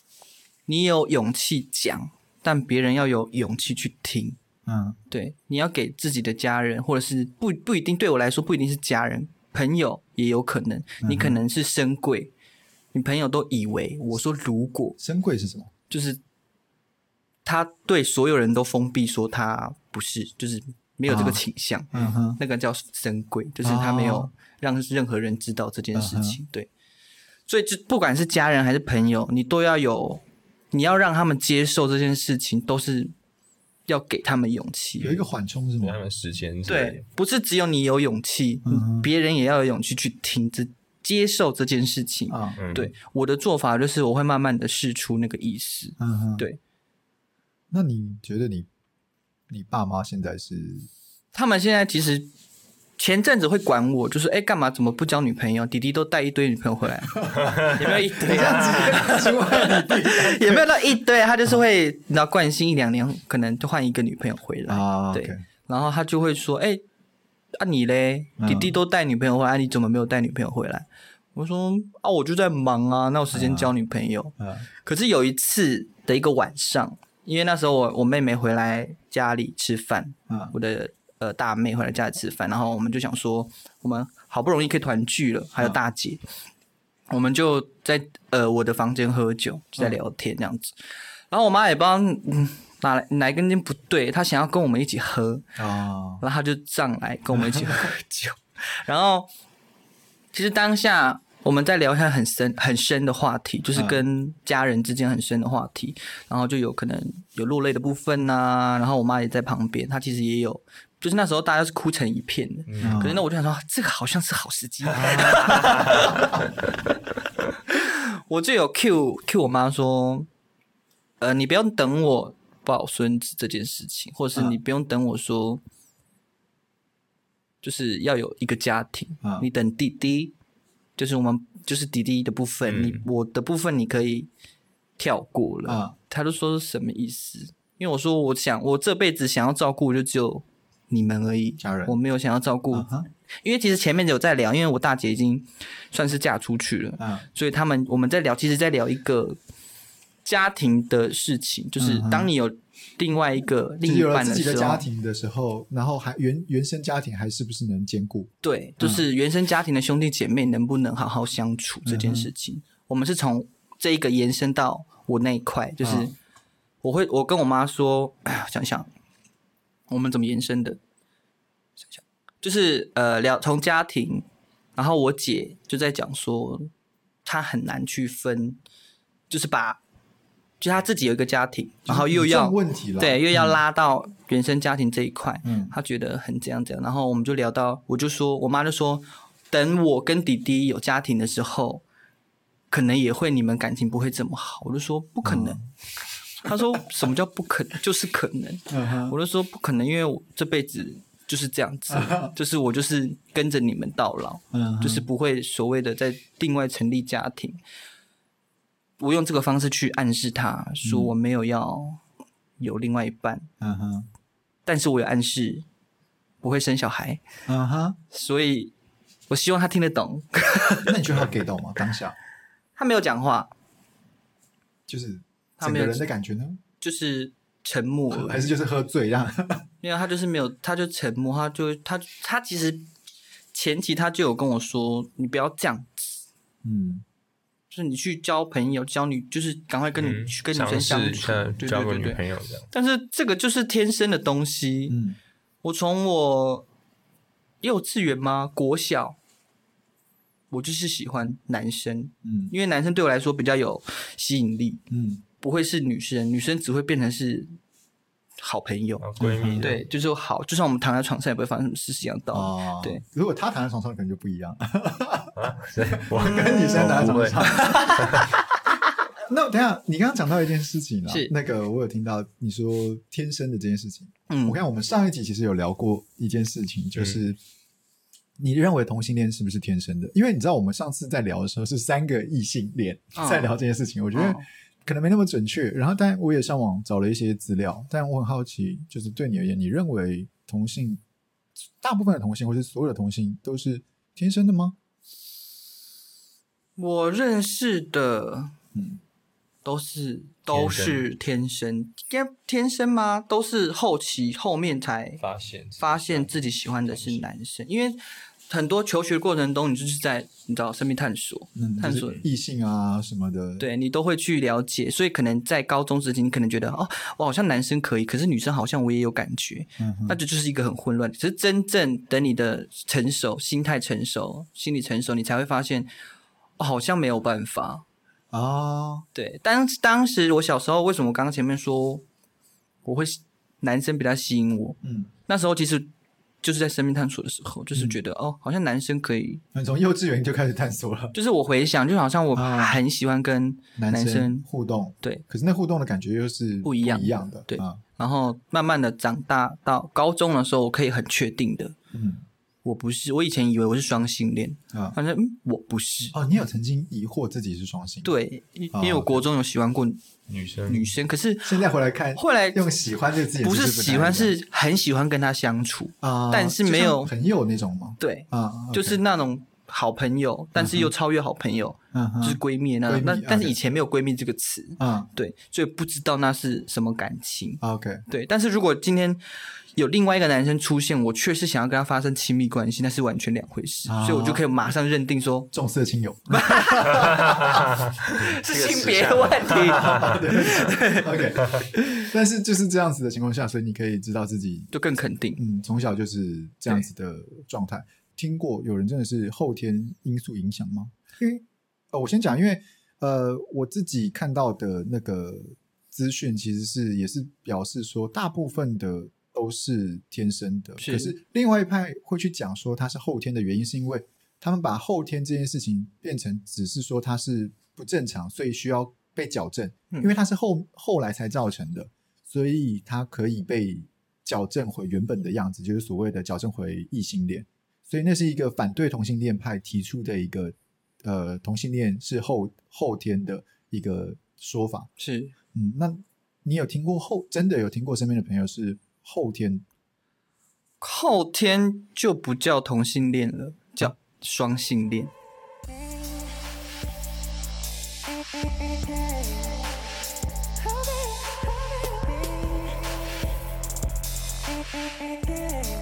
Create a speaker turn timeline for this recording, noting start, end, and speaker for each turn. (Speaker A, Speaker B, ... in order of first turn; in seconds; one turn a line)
Speaker A: 0.7-4.4
Speaker B: 4.7-5.0
Speaker A: 5.1-12.3
Speaker B: 11.0-11.4
Speaker A: 12.9-15.0
Speaker B: 15.0-15.7
Speaker A: 15.9-16.2
Speaker A: 17.4-26.7
Speaker B: 21.1-22.4
Speaker B: 23.6-24.3
Speaker B: 25.9-26.4
Speaker A: 27.5-33.1
Speaker A: 33.9-35.2
Speaker B: 35.0-36.0
Speaker C: 35.8-37.0
Speaker A: 36.7-46.6
Speaker B: 38.6-39.1
Speaker B: 42.3-42.6
Speaker C: 42.6-42.9
Speaker B: 46.0-46.5
Speaker B: 47.7-48.7
Speaker B: 49.5-50.9
Speaker A: 51.3-52.3
Speaker A: 53.0-66.8
Speaker B: 57.1-60.6
Speaker B: 64.7-65.4
Speaker A: 67.5-86.2
Speaker B: 68.4-68.8
Speaker B: 73.3-73.7
Speaker B: 74.4-74.7
Speaker B: 80.3-80.5
Speaker A: 87.1-90.8
Speaker A: 91.3-95.5
Speaker B: 95.6-96.2
Speaker A: 96.2-99.3
Speaker B: 97.3-98.0
Speaker A: 100.3-116.4
Speaker B: 103.7-104.0
Speaker C: 112.7-113.0
Speaker B: 112.8-113.2
Speaker B: 114.9-115.7
Speaker A: 117.7-120.3
Speaker A: 121.2-125.6
Speaker A: 127.6-130.3
Speaker A: 131.0-134.3
Speaker C: 132.7-133.1
Speaker A: 135.0-142.9
Speaker B: 135.7-135.9
Speaker B: 141.6-142.0
Speaker B: 142.7-143.1
Speaker A: 143.4-149.4
Speaker B: 147.0-147.3
Speaker A: 150.2-154.8
Speaker B: 151.8-152.3
Speaker B: 153.8-159.1
Speaker A: 158.4-166.1
Speaker B: 161.8-162.3
Speaker B: 165.8-166.1
Speaker A: 166.8-168.9
Speaker A: 169.9-170.8
Speaker A: 171.8-176.7
Speaker A: 177.2-178.6
Speaker A: 179.3-179.8
Speaker A: 180.6-191.8
Speaker B: 181.9-183.6
Speaker B: 185.4-185.7
Speaker A: 192.7-195.6
Speaker B: 195.2-195.6
Speaker A: 196.4-207.6
Speaker B: 196.5-196.8
Speaker B: 198.7-199.2
Speaker B: 201.9-202.3
Speaker B: 204.5-205.1
Speaker A: 209.0-212.0
Speaker B: 210.8-211.1
Speaker A: 212.6-213.5
Speaker B: 213.6-214.1
Speaker A: 214.7-215.7
Speaker A: 216.4-217.2
Speaker B: 217.5-218.0
Speaker A: 218.1-218.7
Speaker A: 219.3-221.0
Speaker B: 220.8-222.2
Speaker A: 222.8-223.5
Speaker B: 224.9-226.6
Speaker A: 225.6-226.1
Speaker A: 226.8-228.5
Speaker B: 228.1-229.7
Speaker A: 229.8-232.9
Speaker A: 233.5-236.2
Speaker B: 236.6-237.0
Speaker A: 237.7-245.0
Speaker C: 240.0-242.7
Speaker B: 244.9-245.2
Speaker A: 245.6-246.7
Speaker A: 247.6-249.2
Speaker A: 250.5-254.8
Speaker B: 252.2-252.5
Speaker B: 254.9-255.2
Speaker A: 255.4-257.6
Speaker A: 258.4-263.0
Speaker C: 259.0-259.8
Speaker B: 259.2-259.8
Speaker B: 262.3-265.4
Speaker C: 265.4-268.3
Speaker B: 265.9-268.2
Speaker A: 266.2-268.6
Speaker B: 269.3-277.4
Speaker A: 271.1-271.3
Speaker A: 274.3-274.6
Speaker B: 278.4-291.0
Speaker A: 283.2-283.5
Speaker A: 284.1-284.4
Speaker B: 291.8-294.8
Speaker A: 296.8-298.6
Speaker B: 298.8-299.0
Speaker A: 299.6-305.2
Speaker C: 300.5-301.0
Speaker C: 305.2-307.3
Speaker A: 305.8-312.2
Speaker B: 311.6-313.7
Speaker A: 313.6-325.9
Speaker B: 319.8-320.2
Speaker A: 326.6-327.8
Speaker B: 328.3-329.1
Speaker A: 329.1-332.0
Speaker A: 332.9-335.9
Speaker B: 334.8-335.1
Speaker A: 336.4-339.4
Speaker B: 339.6-341.1
Speaker A: 341.1-344.5
Speaker B: 342.4-342.8
Speaker B: 343.8-347.8
Speaker A: 346.6-351.8
Speaker B: 351.9-352.2
Speaker A: 352.6-356.2
Speaker B: 356.1-358.1
Speaker A: 358.0-360.0
Speaker B: 358.7-359.2
Speaker C: 360.3-360.9
Speaker A: 360.7-361.6
Speaker B: 361.4-364.3
Speaker A: 362.2-362.7
Speaker A: 363.4-367.1
Speaker B: 366.0-369.0
Speaker A: 368.0-379.2
Speaker B: 370.6-370.9
Speaker B: 371.9-373.6
Speaker B: 374.8-375.1
Speaker B: 377.6-378.0
Speaker A: 379.8-385.5
Speaker B: 383.9-384.4
Speaker B: 385.5-387.7
Speaker A: 386.3-387.3
Speaker C: 387.3-387.7
Speaker A: 388.1-391.2
Speaker C: 388.2-390.2
Speaker B: 389.6-394.7
Speaker A: 391.7-392.0
Speaker A: 394.7-395.4
Speaker B: 395.4-434.9
Speaker A: 410.8-411.1
Speaker A: 435.0-435.3
Speaker B: 435.5-439.6
Speaker A: 440.8-445.1